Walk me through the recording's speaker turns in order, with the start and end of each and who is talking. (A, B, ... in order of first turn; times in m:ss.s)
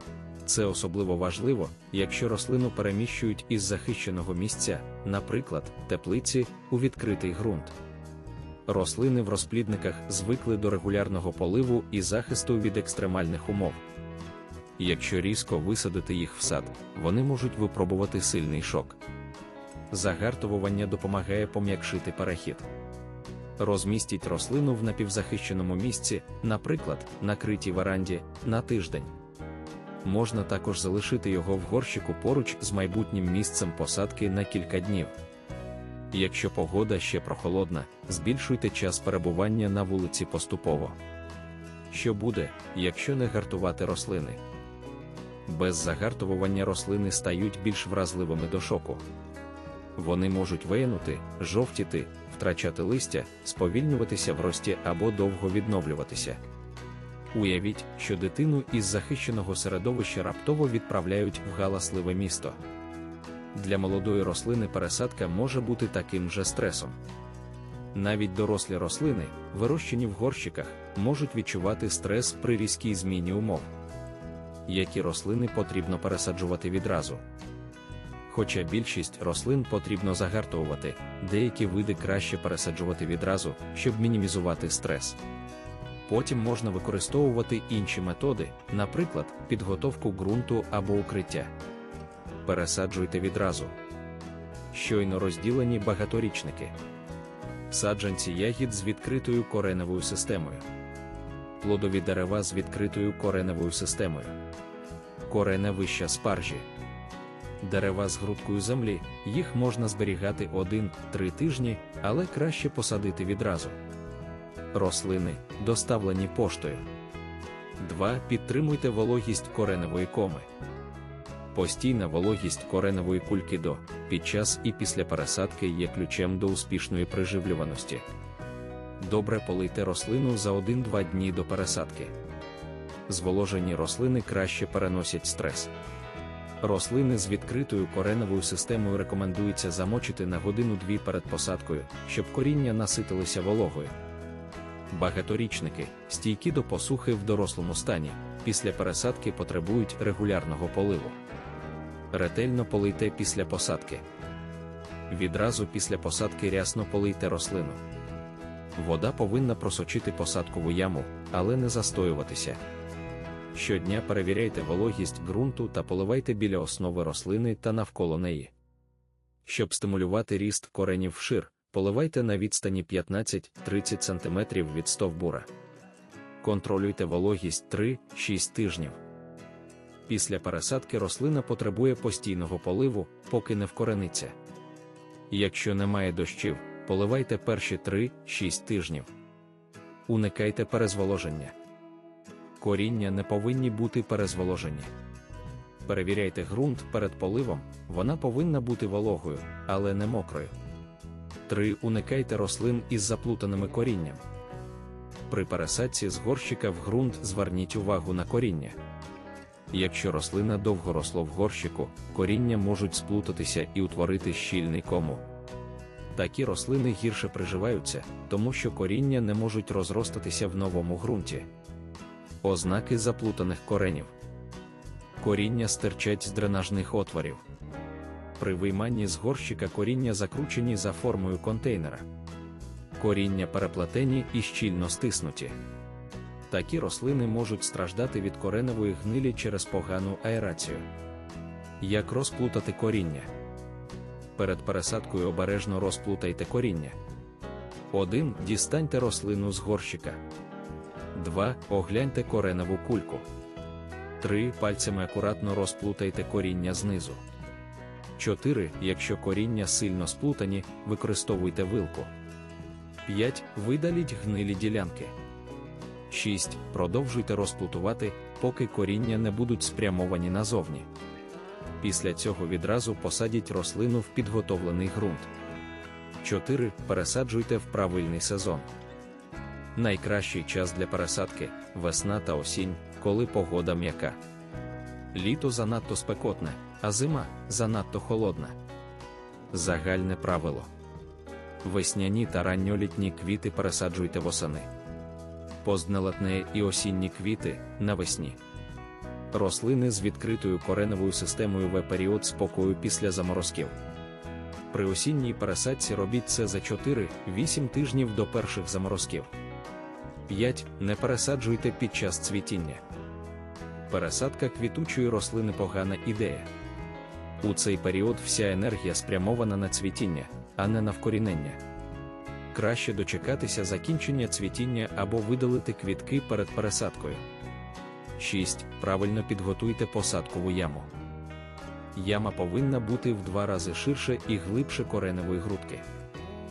0:00.4-0:07.8 A
0:08.7-0:13.8 A
0:14.8-0:19.0 A
0:19.9-0:22.7 A
0:23.6-0:29.1 A
0:30.0-0:35.1 A
0:36.1-0:41.0 A
0:41.9-0:44.4 A
0:45.5-0:49.0 A
0:50.0-0:56.4 A
0:57.3-1:02.6 A
1:03.5-1:07.0 A
1:07.9-1:13.7 A
1:14.7-1:17.2 A
1:18.3-1:25.2 A
1:26.1-1:31.5 A
1:32.4-1:33.8 A
1:34.7-1:36.8 A
1:37.7-1:40.6 A
1:41.6-1:44.4 A
1:45.3-1:46.7 A
1:47.6-1:53.8 A
1:54.7-1:56.9 A
1:57.8-2:00.5 A
2:01.5-2:08.0 A
2:09.0-2:12.1 A
2:13.1-2:15.7 A
2:16.6-2:24.0 A
2:24.9-2:31.2 A
2:32.1-2:34.0 A
2:35.1-2:37.8 A
2:38.8-2:42.6 A
2:43.5-2:48.5 A
2:49.4-2:55.5 A
2:56.4-2:59.0 A
3:00.1-3:04.4 A
3:05.3-3:09.1 A
3:10.1-3:11.6 A
3:12.6-3:14.9 A
3:15.9-3:20.5 A
3:21.5-3:24.2 A
3:25.3-3:28.8 A
3:29.7-3:35.2 A
3:36.2-3:41.5 A
3:42.4-3:44.1 A
3:45.2-3:47.4 A
3:48.4-3:52.1 A
3:53.0-3:55.6 A
3:56.5-4:00.9 A
4:01.8-4:03.3 A
4:04.4-4:07.0 A
4:07.9-4:10.2 A
4:11.1-4:13.3 A
4:14.2-4:17.2 A
4:18.2-4:22.1 A
4:23.1-4:25.2 A
4:26.1-4:30.9 A
4:31.8-4:35.3 A
4:36.2-4:38.7 A
4:39.8-4:44.2 A
4:45.1-4:48.6 A
4:49.5-4:50.7 A
4:51.6-4:54.7 A
4:55.6-4:58.4 A
4:59.3-5:03.8 A
5:04.7-5:09.3 A
5:10.3-5:12.8 A
5:13.9-5:16.5 A
5:17.4-5:21.6 A
5:22.5-5:27.2 A
5:28.2-5:30.9 A
5:32.0-5:35.8 A